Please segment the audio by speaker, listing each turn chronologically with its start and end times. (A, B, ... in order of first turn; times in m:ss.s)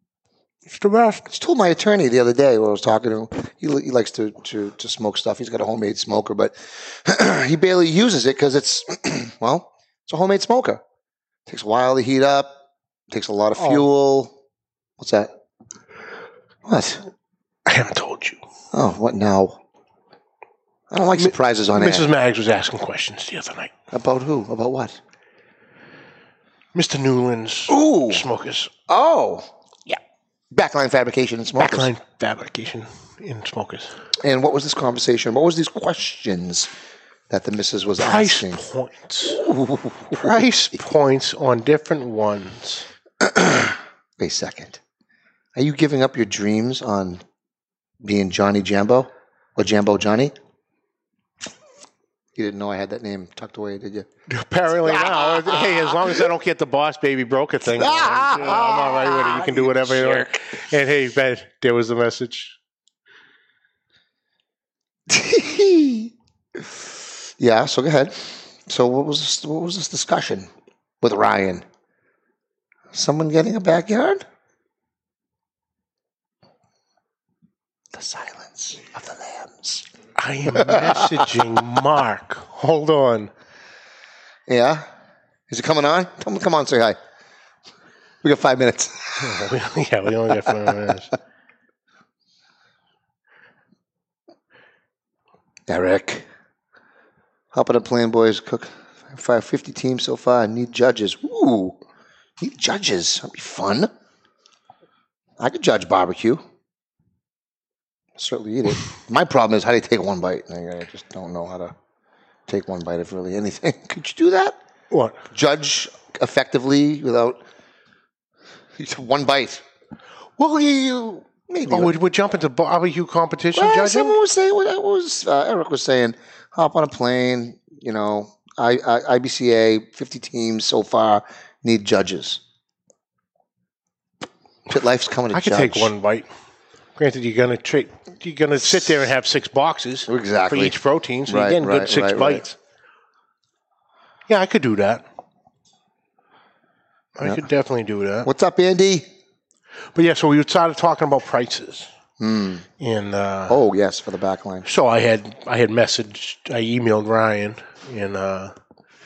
0:00.6-0:01.3 A
0:01.3-0:10.8 B
0:11.5-0:12.6 B
0:13.1-0:14.3 B
0:13.6-0:13.8 A
0:15.0-0:15.3 B
0:16.6-0:17.0 B
0:17.6-0:18.4 A
0:18.7-0:19.6 B
0:20.9-0:22.1 B
0:21.2-0:23.7 A
0:23.9-0:25.0 B
0:26.7-0:28.7 A
0:27.7-0:28.2 B
0:28.9-0:29.5 B
0:30.5-0:31.9 B
0:31.6-0:33.9 A
0:34.2-0:36.7 B
0:37.3-0:38.6 B
0:38.0-0:39.4 A
0:39.3-0:40.4 B
0:40.1-0:42.8 A
0:43.2-0:44.8 B
0:45.6-0:47.2 B
0:48.0-0:50.3 B
0:52.3-0:54.1 B
0:54.3-1:02.6 A
0:54.8-0:56.3 B
0:57.7-1:00.4 B
1:05.1-1:06.7 B
1:07.4-1:10.5 B
1:11.0-1:11.6 B
1:12.9-1:14.2 B
1:17.9-1:19.8 B
1:20.2-1:23.3 A
1:20.5-1:21.4 B
1:24.5-1:24.8 B
1:25.5-1:27.0 B
1:28.2-1:29.4 B
1:29.2-1:31.1 A
1:35.7-1:36.2 B
1:37.5-1:41.8 B
1:42.4-1:43.9 B
1:45.4-1:46.4 B
1:48.2-1:51.7 B
1:52.5-1:54.6 B
1:54.9-1:55.2 A
1:55.3-1:57.4 B
1:58.8-1:59.6 B
2:00.4-2:04.2 A
2:01.3-2:02.0 B
2:03.5-2:12.4 B
2:14.7-2:15.9 B
2:15.3-2:16.3 A
2:17.0-2:22.6 A
2:20.1-2:20.8 B
2:21.3-2:22.4 B
2:24.3-2:25.0 A
2:27.2-2:28.3 A
2:28.2-2:29.1 B
2:29.9-2:31.9 A
2:32.2-2:32.6 B
2:32.8-2:33.6 A
2:33.5-2:34.6 B
2:34.6-2:38.5 A